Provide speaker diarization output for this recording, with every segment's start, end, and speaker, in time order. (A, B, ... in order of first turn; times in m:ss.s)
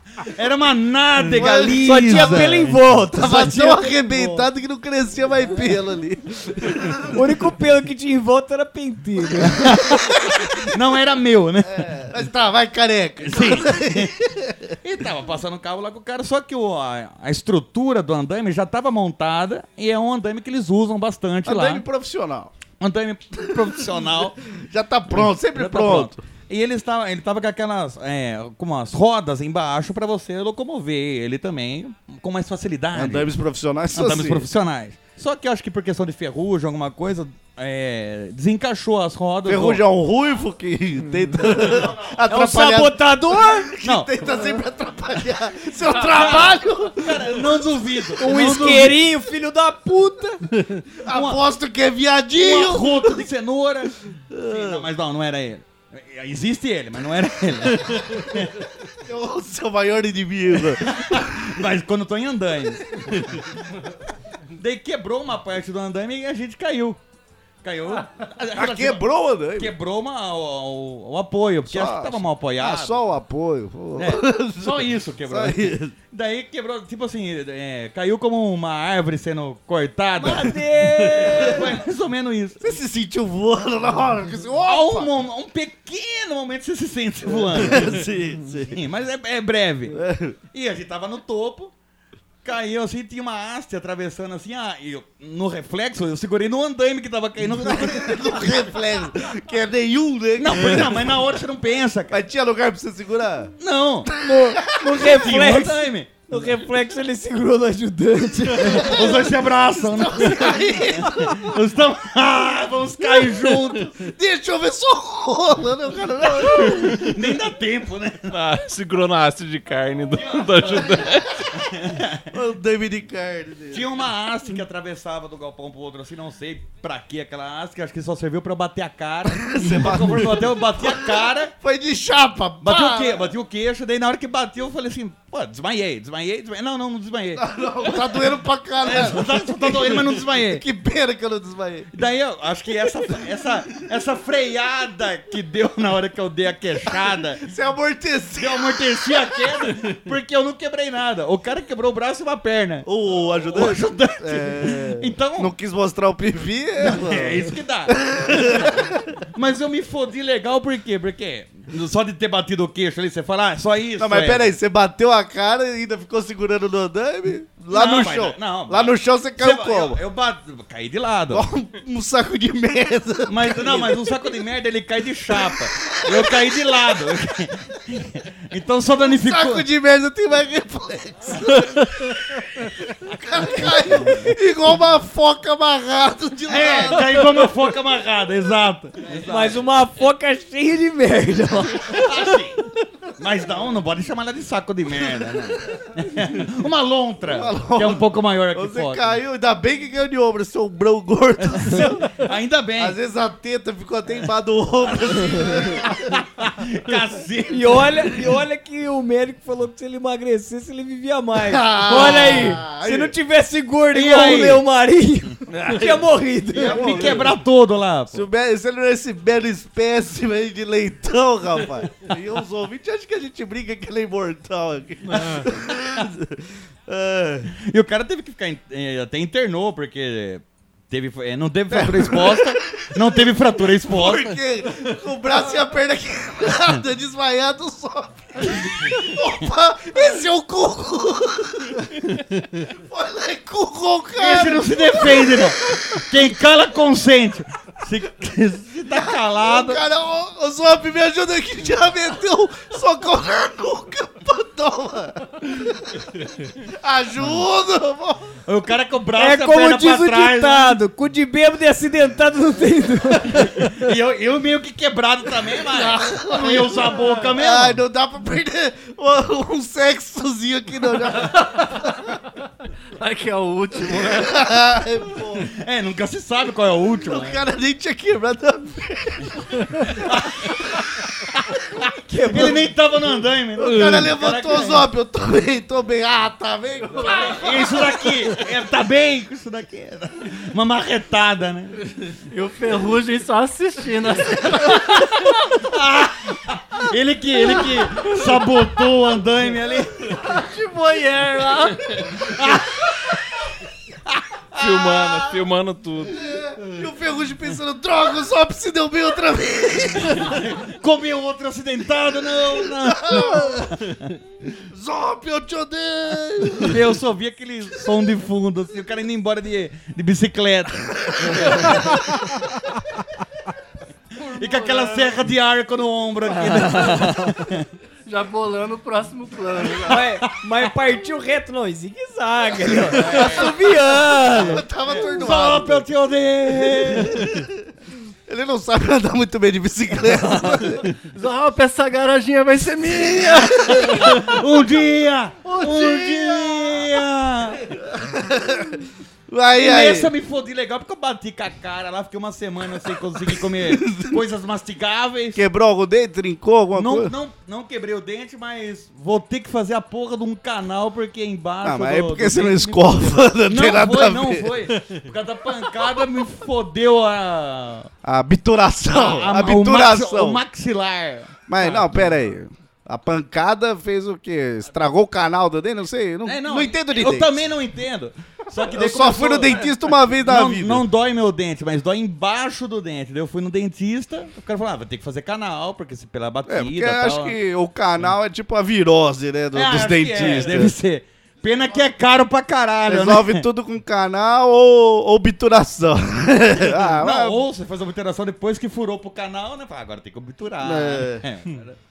0:00.2-0:03.7 A
0:01.2-0:02.6 B
0:01.8-0:04.4 C
0:03.1-0:07.1 B
0:07.1-0:09.8 C
0:09.6-0:11.9 A
0:09.9-0:10.5 B
0:11.6-0:14.7 B
0:13.2-0:14.1 A
0:14.8-0:21.8 A
0:21.4-0:22.5 B
0:22.8-0:24.4 A
0:24.5-0:26.2 B
0:25.1-0:33.3 A
0:32.9-0:34.4 B
0:33.9-0:39.8 A
0:39.4-0:47.6 B
0:41.0-0:41.4 C
0:41.5-0:42.2 A
0:42.3-0:43.7 C
0:43.8-0:44.5 A
0:46.0-0:49.0 A
0:48.2-0:50.4 C
0:51.0-0:53.2 B
0:51.1-0:51.4 A
0:52.4-0:58.6 A
0:54.3-0:54.8 B
0:59.0-1:01.5 B
1:00.8-1:03.4 A
1:04.6-1:07.0 A
1:07.6-1:09.0 A
1:08.5-1:09.7 B
1:09.6-1:13.0 A
1:11.7-1:15.9 B
1:14.0-1:20.5 A
1:20.2-1:21.6 C
1:21.1-1:22.6 A
1:21.1-1:21.4 B
1:22.6-1:25.1 B
1:24.6-1:28.0 A
1:27.3-1:28.8 B
1:28.7-1:30.0 A
1:29.9-1:30.4 B
1:30.5-1:31.7 A
1:32.4-1:38.6 A
1:37.4-1:41.2 B
1:40.4-1:42.2 A
1:42.1-1:43.5 B
1:43.6-1:44.1 A
1:44.1-1:45.3 B
1:44.2-1:49.1 C
1:45.0-1:46.2 A
1:48.5-1:51.5 B
1:48.6-1:54.1 A
1:53.0-1:57.0 B
1:56.4-1:58.4 A
1:58.3-2:01.4 D
2:00.1-2:02.3 A
2:02.3-2:03.9 B
2:03.7-2:11.5 A
2:09.3-2:13.3 B
2:12.6-2:18.2 A
2:17.4-2:21.9 B
2:18.8-2:20.6 A
2:21.9-2:27.4 A
2:23.1-2:23.5 B
2:27.4-2:29.3 B
2:28.4-2:32.9 A
2:32.8-2:39.2 B
2:33.5-2:35.5 A
2:36.8-2:44.5 A
2:44.0-2:50.0 B
2:47.7-2:51.4 A
2:51.3-2:54.2 B
2:53.3-2:59.6 A
2:55.5-2:56.6 B
2:59.0-3:02.4 B
3:02.9-3:07.4 B
3:06.5-3:09.6 A
3:09.3-3:12.1 C
3:11.9-3:12.6 A
3:13.2-3:19.2 A
3:17.3-3:22.1 B
3:21.4-3:23.0 A
3:22.8-3:26.1 B
3:25.3-3:28.2 A
3:27.5-3:37.1 C
3:31.4-3:33.1 B
3:31.9-3:32.6 A
3:33.9-3:34.6 A
3:35.6-3:36.0 B
3:36.5-3:37.4 B
3:36.6-3:38.2 A
3:38.1-3:47.5 B
3:47.6-3:54.3 A
3:51.7-4:02.1 B
4:02.6-4:06.1 B
4:04.2-4:09.8 A
4:08.9-4:18.3 B
4:18.5-4:20.8 A
4:19.2-4:23.7 C
4:23.4-4:27.8 A
4:25.7-4:31.8 B
4:26.7-4:27.1 E
4:31.2-4:31.8 E
4:33.0-4:34.4 E
4:33.9-4:35.5 B
4:35.5-4:37.4 A
4:37.0-4:39.6 B
4:39.9-4:40.8 A
4:42.1-4:42.6 C
4:42.3-4:44.8 A
4:43.6-4:48.0 B
4:47.0-4:51.8 A
4:52.3-4:55.3 E
4:55.6-5:00.2 A
5:00.2-5:02.0 E
5:02.2-5:03.2 A
5:04.1-5:05.3 A
5:04.6-5:06.2 D
5:06.3-5:10.4 B
5:10.1-5:14.1 A
5:12.8-5:13.8 B
5:14.7-5:16.8 B
5:16.6-5:22.2 A
5:21.2-5:21.5 B
5:24.2-5:27.6 A
5:24.5-5:25.1 E
5:26.7-5:27.1 C
5:28.1-5:30.0 E
5:29.8-5:34.6 C
5:33.0-5:33.4 A
5:33.1-5:35.9 B
5:34.9-5:37.2 A
5:36.7-5:37.5 B
5:38.3-5:40.8 B
5:41.1-5:44.4 E
5:42.8-5:44.0 B
5:43.7-5:47.7 A
5:45.4-5:45.9 E
5:45.6-5:46.2 B
5:47.9-5:50.1 B
5:49.6-5:55.4 A
5:53.5-5:54.1 B
5:55.3-5:57.1 B
5:56.7-6:07.9 A
6:01.6-6:04.5 B
6:08.0-6:10.4 B
6:08.9-6:11.4 A
6:11.5-6:17.4 B
6:16.2-6:27.4 A
6:18.7-6:20.8 B
6:26.4-6:30.8 B
6:29.5-6:33.4 A
6:32.8-6:37.4 B
6:36.8-6:41.8 A
6:40.6-6:41.2 B